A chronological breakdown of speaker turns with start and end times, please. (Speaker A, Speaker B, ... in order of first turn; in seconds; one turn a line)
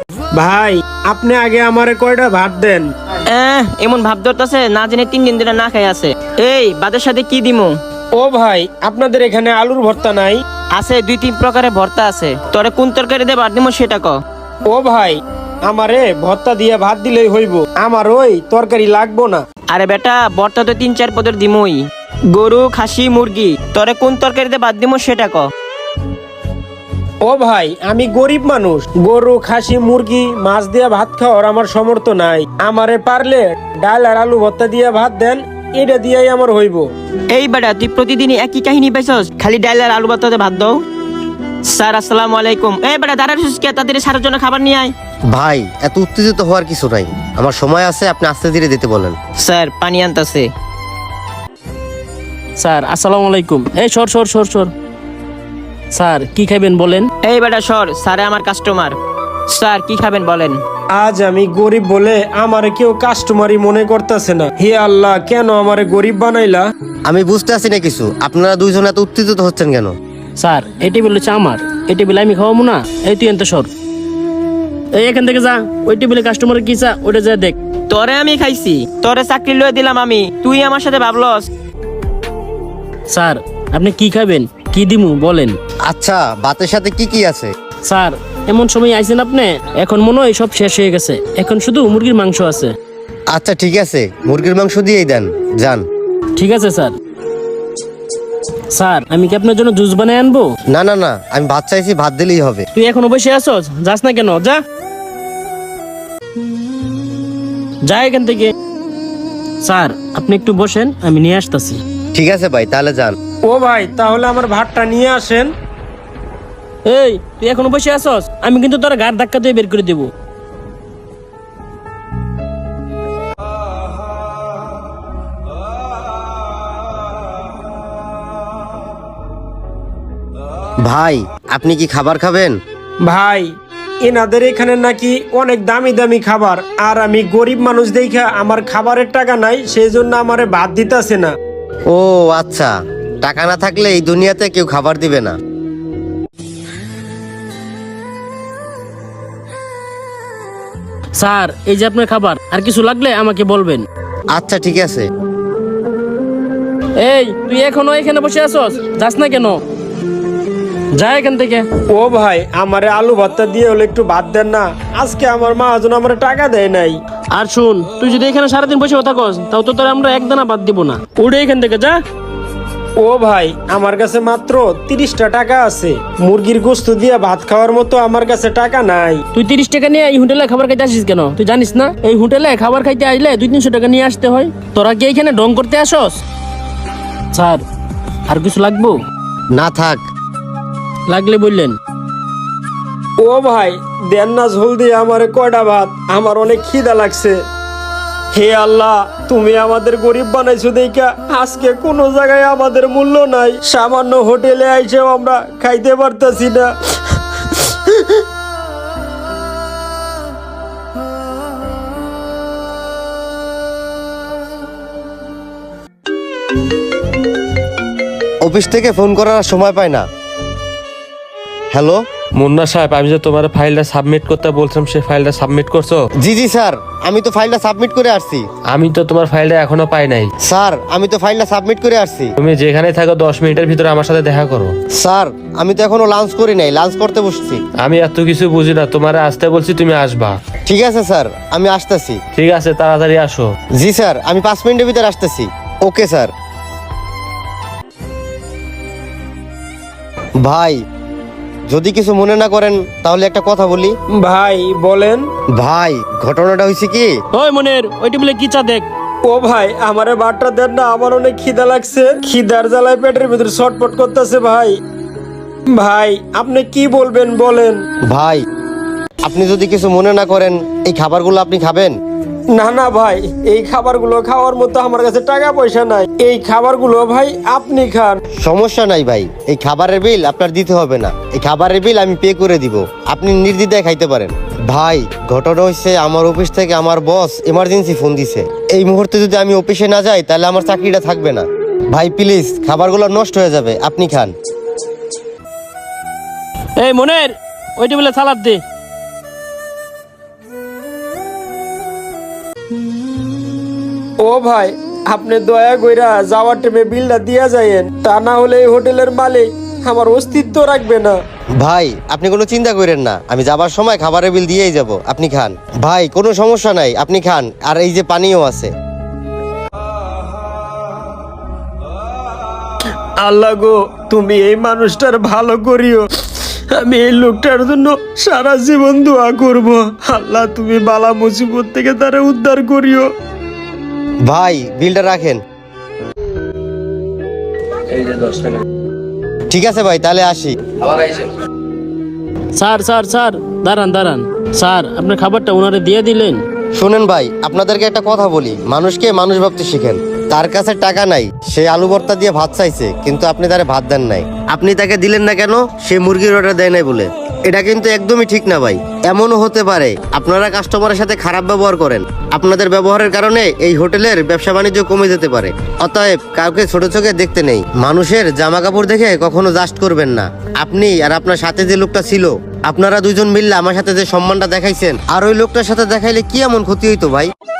Speaker A: 0.3-2.9
Speaker B: 3.3-7.7
Speaker A: 8.2-10.4
Speaker B: 10.7-14.2
Speaker A: 14.7-19.4
Speaker B: 19.7-21.8
Speaker B: 22.3-25.5
Speaker A: 27.2-36.9
Speaker B: 37.3-40.8
Speaker B: 41.7-44.9
Speaker C: 45.3-49.1
Speaker B: 49.4-50.5
Speaker D: 52.6-54.7
Speaker D: 55.9-57.1
Speaker B: 57.2-59.0
Speaker B: 59.5-60.6
Speaker A: 60.9-66.7
Speaker C: 67.0-69.9
Speaker D: 70.4-73.7
Speaker D: 75.0-77.5
Speaker B: 77.9-81.5
Speaker D: 83.1-85.6
Speaker C: 85.9-87.5
Speaker D: 87.8-92.7
Speaker C: 93.3-95.8
Speaker D: 96.3-96.9
Speaker D: 98.7-100.5
Speaker C: 100.7-102.7
Speaker D: 102.7-104.6
Speaker D: 107.8-108.5
Speaker D: 109.6-111.8
Speaker C: 112.1-113.2
Speaker A: 113.4-115.5
Speaker D: 116.8-120.1
Speaker C: 130.8-132.6
Speaker A: 133.0-133.5
Speaker A: 134.0-141.3
Speaker C: 141.9-145.3
Speaker D: 151.2-153.8
Speaker C: 154.3-155.1
Speaker D: 157.0-159.6
Speaker D: 160.9-161.7
Speaker A: 161.9-167.0
Speaker D: 167.3-172.0
Speaker A: 173.0-179.2
Speaker D: 179.3-186.2
Speaker D: 187.3-187.6
Speaker D: 188.3-189.0
Speaker C: 189.5-190.0
Speaker D: 191.1-191.8
Speaker A: 193.2-197.4
Speaker A: 198.3-206.7
Speaker A: 207.5-208.2
Speaker C: 218.4-220.0
Speaker C: 221.7-222.0
Speaker E: 222.3-226.1
Speaker C: 226.2-228.5
Speaker E: 228.7-230.3
Speaker C: 230.4-232.3
Speaker E: 232.4-234.8
Speaker C: 234.9-237.6
Speaker E: 237.8-240.4
Speaker C: 240.7-242.2
Speaker E: 242.3-243.5
Speaker C: 243.8-246.3
Speaker C: 250.4-250.8
Speaker C: 251.7-253.9
Speaker A: 254.2-255.2
Speaker C: 255.5-257.1
Speaker D: 257.3-258.9
Speaker A: 259.2-264.7
Speaker A: 265.7-267.8
Speaker C: 268.1-268.4
Speaker C: 269.2-271.9
Speaker A: 272.5-278.2
Speaker C: 278.4-294.3
Speaker D: 296.8-298.6
Speaker A: 304.2-311.2
Speaker C: 311.6-318.7
Speaker A: 323.2-326.0
Speaker A: 326.7-333.1
Speaker C: 334.2-335.4
Speaker E: 338.1-338.5
Speaker C: 339.5-341.2
Speaker D: 342.5-346.4
Speaker C: 346.8-377.3